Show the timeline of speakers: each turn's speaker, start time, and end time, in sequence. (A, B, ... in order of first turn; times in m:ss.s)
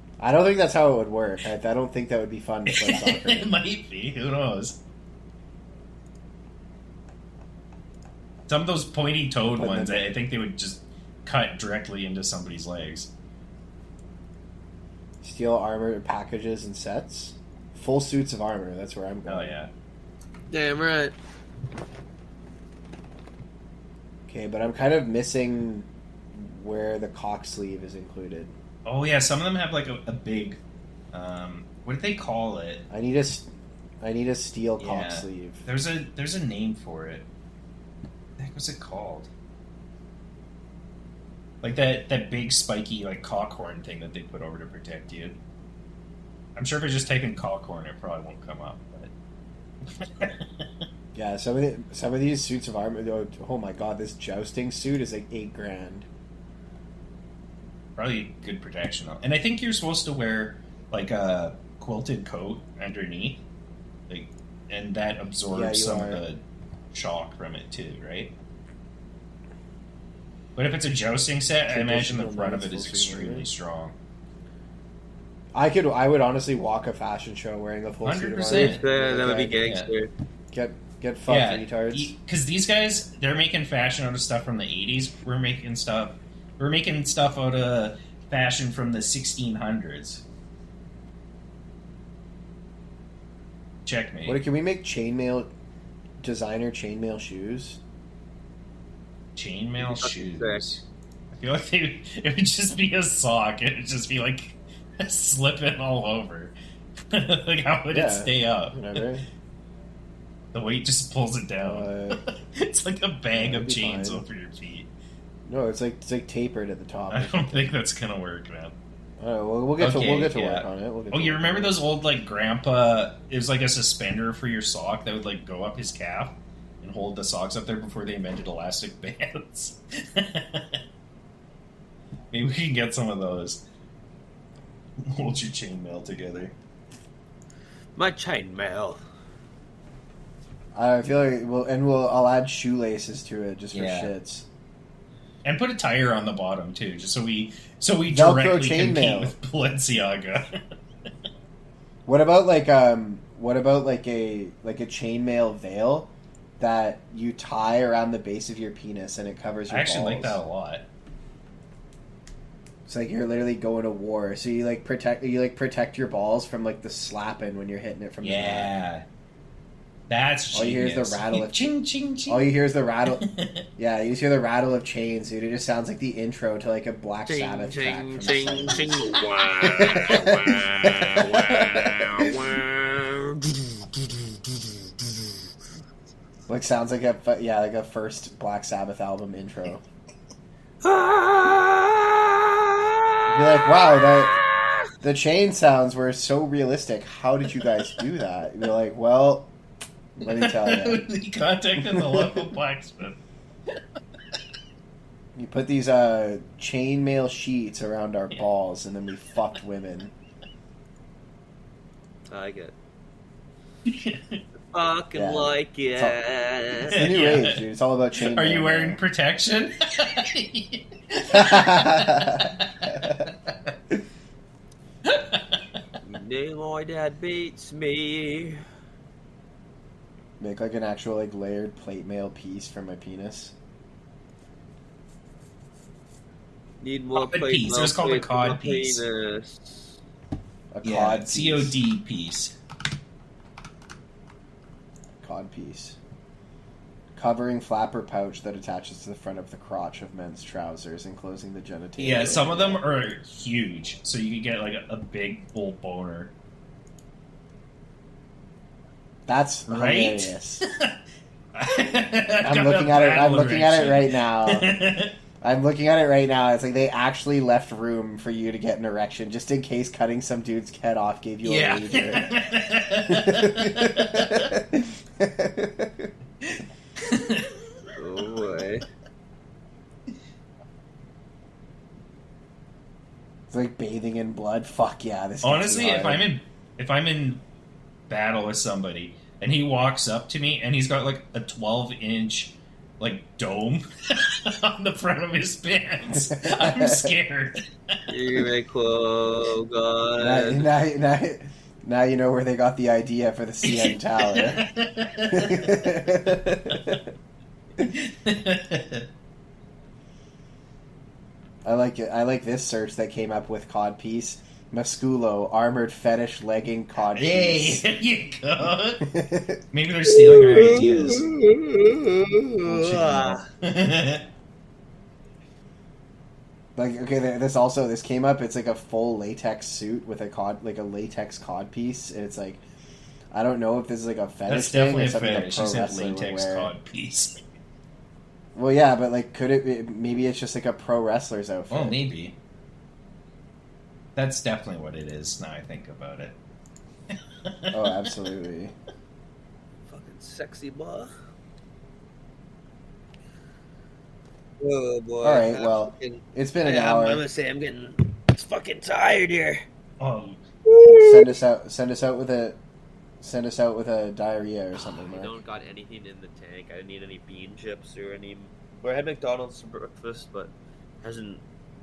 0:00.2-0:03.5 A
0:02.7-0:04.8 B
0:08.5-0:13.1 B
0:09.5-0:10.1 A
0:15.2-0:19.5 A
0:19.2-0:19.7 B
0:20.5-0:21.1 C
0:24.3-0:28.5 A
0:28.8-0:30.6 B
0:31.1-0:32.8 B
0:32.9-0:33.5 A
0:34.0-0:35.6 A
0:34.8-0:37.3 B
0:38.4-0:39.3 B
0:41.6-0:45.4 B
0:46.6-0:49.1 B
0:49.8-0:50.8 B
0:51.1-0:56.1 A
0:58.0-1:03.4 B
1:04.1-1:06.4 B
1:05.5-1:06.2 A
1:06.9-1:08.3 B
1:10.6-1:13.9 B
1:11.7-1:13.5 A
1:15.5-1:19.6 A
1:18.0-1:18.8 B
1:18.5-1:20.1 C
1:19.6-1:19.9 B
1:20.5-1:22.1 A
1:21.3-1:30.2 B
1:33.8-1:34.4 B
1:34.2-1:35.5 A
1:36.2-1:37.8 A
1:39.3-1:46.5 B
1:39.8-1:40.6 C
1:47.1-1:49.0 B
1:47.9-1:49.2 A
1:50.5-1:54.9 B
1:51.6-1:52.2 A
1:53.3-1:54.3 A
1:55.4-1:57.7 A
1:57.1-1:58.7 B
1:59.2-2:01.8 A
1:59.8-2:10.8 B
2:12.3-2:13.6 B
2:15.0-2:16.5 B
2:18.0-2:19.0 C
2:20.7-2:24.4 A
2:23.7-2:24.1 B
2:25.4-2:30.6 B
2:28.1-2:29.3 A
2:32.1-2:40.4 A
2:39.7-2:40.8 B
2:42.8-2:48.7 A
2:48.2-2:49.0 B
2:50.1-2:52.5 B
2:50.5-2:51.7 A
2:52.3-2:53.2 A
2:53.0-2:53.7 B
2:53.8-2:59.0 A
2:57.2-3:04.2 C
2:59.7-3:02.4 A
3:06.5-3:09.8 A
3:10.8-3:13.1 C
3:13.3-3:14.4 A
3:13.9-3:14.7 C
3:15.0-3:19.5 A
3:20.2-3:21.1 A
3:20.2-3:23.2 B
3:21.8-3:22.5 A
3:25.4-3:30.1 A
3:32.3-3:32.7 C
3:33.8-3:34.4 B
3:34.7-3:37.0 C
3:35.1-3:36.1 A
3:36.9-3:39.0 A
3:36.9-3:37.6 B
3:38.2-3:43.7 B
3:41.3-3:43.2 A
3:45.0-3:45.6 B
3:46.0-3:48.6 C
3:50.4-3:53.5 A
3:56.8-3:59.9 C
3:57.1-3:59.0 B
4:00.7-4:01.7 A
4:00.8-4:02.6 B
4:05.2-4:06.0 A
4:07.1-4:12.8 A
4:12.0-4:16.3 B
4:19.3-4:20.6 A
4:19.7-4:21.0 B
4:21.5-4:25.2 B
4:22.4-4:24.7 A
4:25.4-4:32.3 A
4:31.4-4:34.6 B
4:33.1-4:36.1 A
4:36.4-4:37.6 B
4:38.0-4:38.8 C
4:43.5-4:46.2 A
4:45.4-4:47.4 B
4:48.1-4:58.0 B
4:56.1-4:57.1 A
4:58.1-5:00.7 C
5:00.2-5:04.6 A
5:03.6-5:05.7 B
5:05.3-5:07.1 A
5:07.8-5:09.1 B
5:11.6-5:17.8 A
5:17.1-5:19.1 B
5:19.0-5:19.6 A
5:19.7-5:21.4 B
5:20.1-5:23.4 C
5:22.6-5:24.2 B
5:26.8-5:32.6 A
5:33.3-5:36.7 A
5:34.5-5:37.4 B
5:38.5-5:42.0 A
5:41.7-5:42.4 B
5:44.2-5:46.4 B
5:47.1-5:48.1 B
5:47.7-5:48.7 A
5:49.9-5:51.1 C
5:54.6-5:59.6 C
5:55.2-5:57.2 A
6:00.0-6:00.4 B
6:00.6-6:01.4 C
6:01.0-6:02.6 A
6:03.2-6:05.3 A
6:04.8-6:11.4 C